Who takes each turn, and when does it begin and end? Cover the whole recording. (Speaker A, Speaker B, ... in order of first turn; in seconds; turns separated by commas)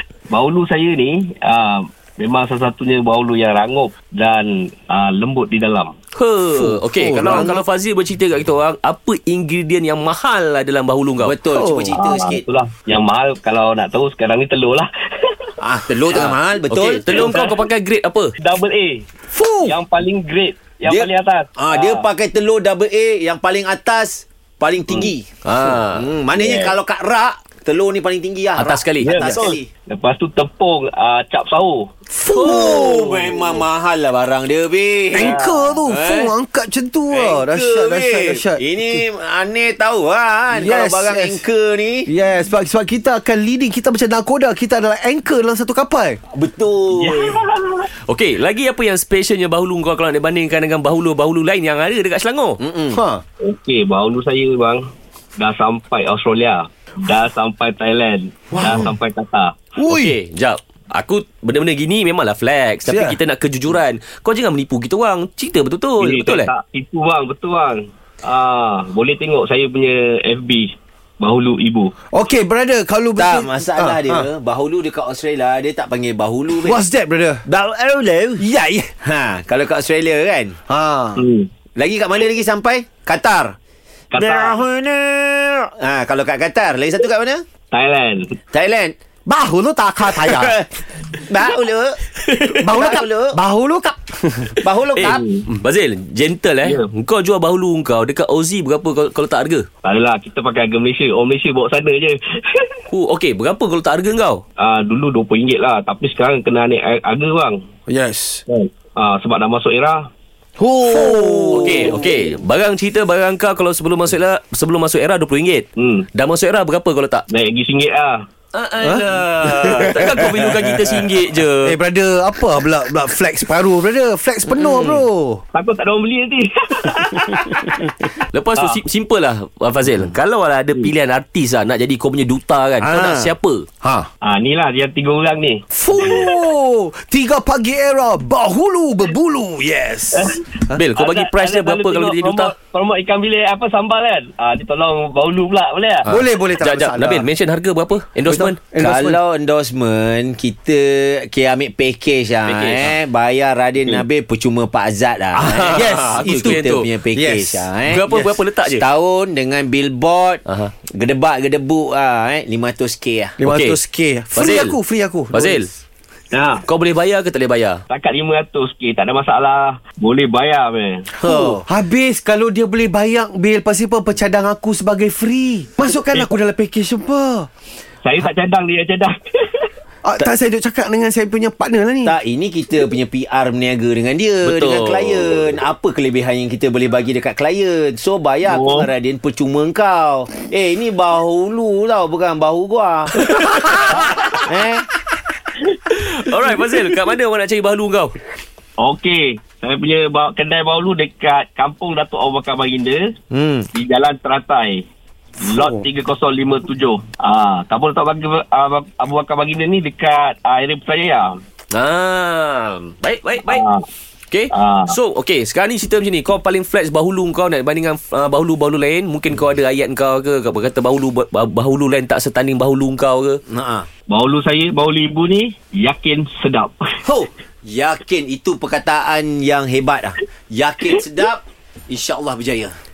Speaker A: 0.3-5.9, Speaker B: 6.1-11.3, Speaker C: 6.5-7.5, Speaker D: 7.2-7.6, Speaker D: 11.2-12.4, Speaker C: 11.5-12.1, Speaker A: 11.9-15.3, Speaker D: 15.6-17.3, Speaker B: 16.1-18.3, Speaker A: 17.1-17.5, Speaker A: 18.4-19.1, Speaker C: 19.3-19.8, Speaker A: 19.6-22.1, Speaker D: 20.8-29.7, Speaker B: 25.4-26.1, Speaker A: 26.4-26.7, Speaker B: 28.6-29.5, Speaker A: 29.0-31.9, Speaker C: 32.1-33.2, Speaker B: 32.3-33.3, Speaker D: 32.3-36.3, Speaker C: 35.1-39.0, Speaker A: 35.2-35.8, Speaker D: 37.1-42.1, Speaker C: 40.5-41.4, Speaker C: 42.1-46.2, Speaker D: 46.3-47.4, Speaker A: 46.9-47.9, Speaker B: 48.0-52.6, Speaker D: 52.6-53.0, Speaker C: 52.9-53.2, Speaker A: 53.4-54.8, Speaker A: 55.4-59.5, Speaker C: 58.5-58.9, Speaker C: 59.8-60.1, Speaker B: 59.9-66.5, Speaker C: 62.8-63.2, Speaker A: 66.0-71.9, Speaker C: 72.1-74.3, Speaker D: 73.2-76.8, Speaker C: 76.6-77.4, Speaker D: 77.4-78.4, Speaker C: 78.4-78.9, Speaker D: 79.0-80.5, Speaker C: 80.7-81.2, Speaker A: 81.2-81.5, Speaker D: 81.8-83.5, Speaker A: 84.1-84.6, Speaker D: 84.1-87.4, Speaker A: 87.7-88.3, Speaker D: 88.5-89.0, Speaker C: 89.2-90.5, Speaker D: 90.0-92.0, Speaker B: 92.3-92.6, Speaker C: 92.6-94.6, Speaker D: 92.7-93.4, Speaker D: 94.6-95.2, Speaker B: 94.9-99.7, Speaker A: 95.0-95.5, Speaker A: 99.8-102.7, Speaker B: 102.9-104.4, Speaker A: 104.6-107.6, Speaker C: 107.9-108.4, Speaker A: 108.5-110.1, Speaker C: 110.6-112.0, Speaker D: 110.8-112.2, Speaker B: 111.5-117.2, Speaker A: 115.8-116.1, Speaker A: 117.3-118.2, Speaker B: 118.5-121.8, Speaker C: 118.8-120.6, Speaker C: 121.6-125.4, Speaker D: 124.5-125.0, Speaker A: 125.5-127.8, Speaker B: 128.2-133.6, Speaker A: 128.6-128.8, Speaker D: 132.8-133.3, Speaker C: 133.8-134.1, Speaker A: 134.2-136.3, Speaker C: 135.7-140.8, Speaker A: 140.1-140.4, Speaker B: 140.7-142.5, Speaker A: 141.0-146.1, Speaker B: 146.0-148.6, Speaker C: 146.1-147.3, Speaker C: 148.3-149.2, Speaker D: 148.8-163.4, Speaker B: 152.4-152.9, Speaker B: 155.4-156.9, Speaker C: 155.6-157.7, Speaker B: 157.8-158.8, Speaker B: 160.5-160.7, Speaker C: 163.4-165.7, Speaker B: 163.4-163.8, Speaker B: 164.3-164.8, Speaker B: 165.3-165.7, Speaker A: 166.3-166.6, Speaker B: 166.7-167.8, Speaker A: 167.9-171.1, Speaker C: 171.2-177.5, Speaker D: 171.2-171.6, Speaker A: 178.0-179.7, Speaker C: 180.0-182.1, Speaker D: 182.0-193.1, Speaker B: 184.4-185.4, Speaker A: 188.5-188.9, Speaker B: 193.3-193.9, Speaker A: 193.9-194.4, Speaker D: 194.4-194.9, Speaker B: 195.9-198.1, Speaker A: 198.8-203.1, Speaker D: 203.3-203.7, Speaker A: 203.7-204.8, Speaker A: 205.4-211.3, Speaker B: 211.7-213.6, Speaker A: 213.5-213.8, Speaker B: 214.3-223.4, Speaker A: 214.5-214.9, Speaker D: 223.5-223.9, Speaker A: 224.1-227.0, Speaker D: 227.0-232.7